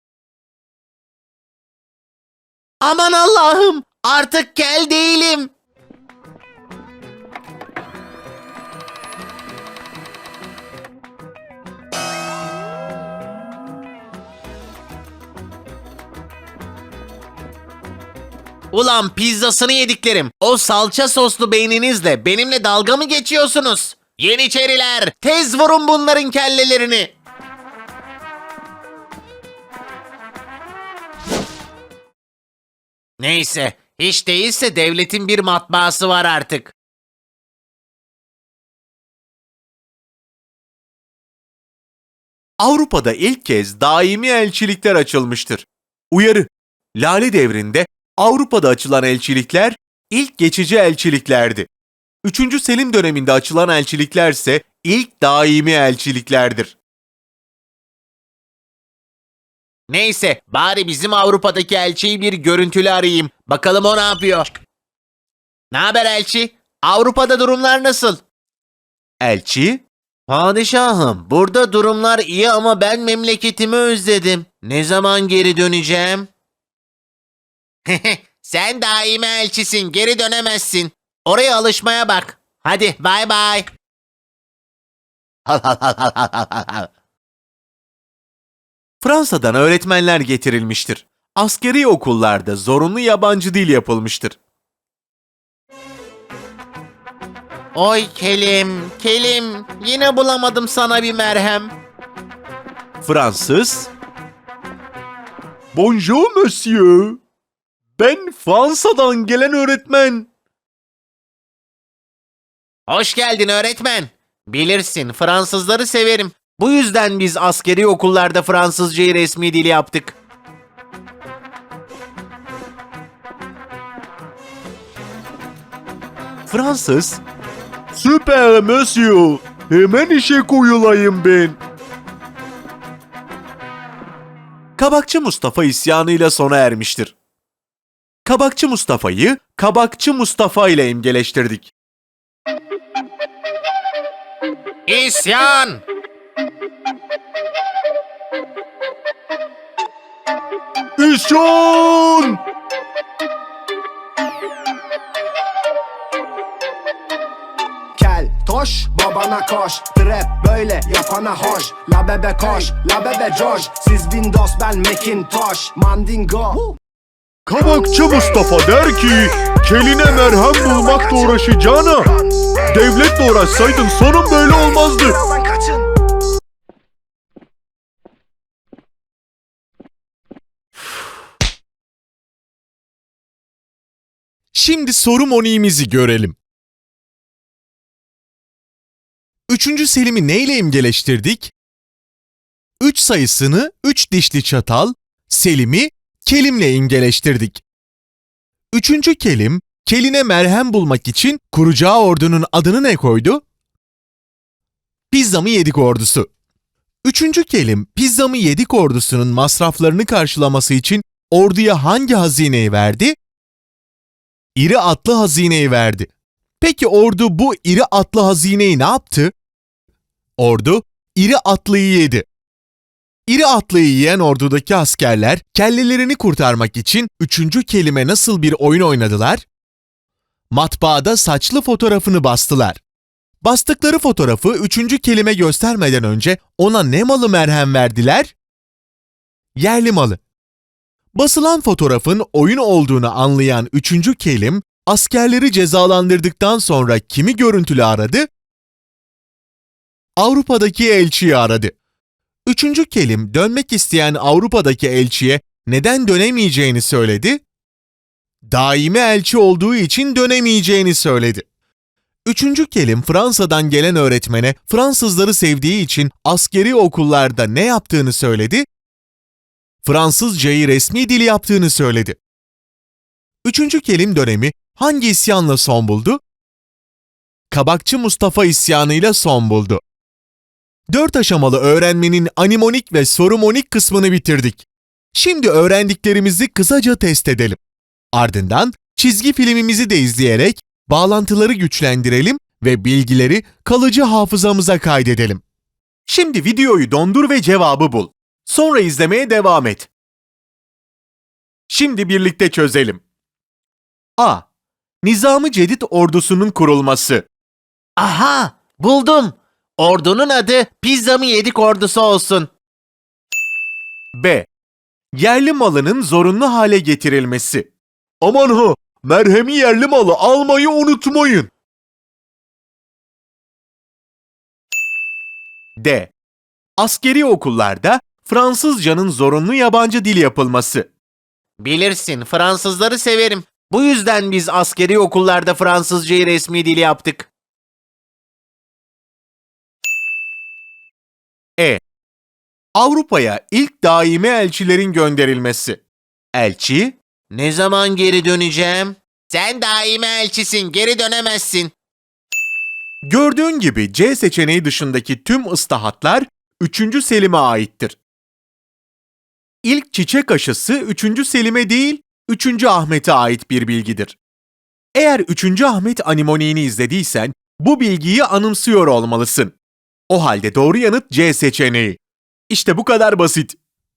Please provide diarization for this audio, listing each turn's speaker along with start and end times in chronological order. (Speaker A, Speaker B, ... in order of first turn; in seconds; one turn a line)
Speaker A: 2.8-5.5
Speaker A: 18.7-27.1
Speaker A: 33.2-36.7
Speaker B: 42.6-51.7
Speaker B: 52.2-56.8
Speaker A: 59.9-64.5
Speaker A: 65.7-68.2
Speaker B: 69.2-69.8
Speaker A: 70.3-76.3
Speaker A: 77.9-83.7
Speaker A: 85.5-86.9
Speaker B: 89.0-94.4
Speaker A: 97.8-101.7
Speaker B: 103.0-103.9
Speaker B: 105.7-107.2
Speaker B: 108.0-110.3
Speaker A: 112.9-120.2
Speaker B: 126.5-127.2
Speaker B: 127.9-131.6
Speaker B: 134.8-137.1
Speaker B: 138.2-141.7
Speaker A: 144.9-145.8
Speaker B: 151.0-152.4
Speaker C: 158.0-166.8
Speaker B: 167.5-172.1
Speaker B: 172.7-175.2
Speaker B: 184.5-186.4
Speaker B: 189.5-191.5
Speaker B: 192.8-197.6
Speaker B: 198.7-203.4
Speaker B: 205.1-206.3
Speaker B: 207.1-213.2
Speaker B: 214.6-216.1
Speaker B: 216.6-219.3
Speaker B: 220.4-222.2
Speaker B: 223.3-229.4
Speaker B: 230.5-232.8
Speaker B: 233.4-238.3
Speaker B: 239.6-240.2
Speaker B: 241.2-248.3
Speaker B: 250.2-251.7
Speaker B: 252.5-257.4
Speaker B: 258.5-261.4
Speaker B: 262.3-268.6
Speaker B: 269.8-272.2
Speaker B: 273.4-276.2
Speaker B: 277.5-279.8
Speaker B: 280.9-287.6
Speaker B: 288.1-295.4
Speaker B: 296.1-299.9
Speaker B: 301.7-303.0
Speaker B: 304.2-304.4
Speaker B: 305.0-307.3
Speaker A: 308.0-312.5
Speaker B: 314.1-314.5
Speaker B: 315.2-317.7
Speaker B: 318.2-321.5
Speaker B: 325.8-326.1
Speaker B: 326.8-330.9
Speaker A: 331.6-337.3
Speaker B: 342.8-345.8
Speaker B: 346.4-347.0
Speaker A: 347.3-351.7
Speaker B: 353.1-358.0
Speaker B: 359.6-364.2
Speaker B: 364.9-369.6
Speaker B: 370.1-372.0
Speaker B: 372.5-373.6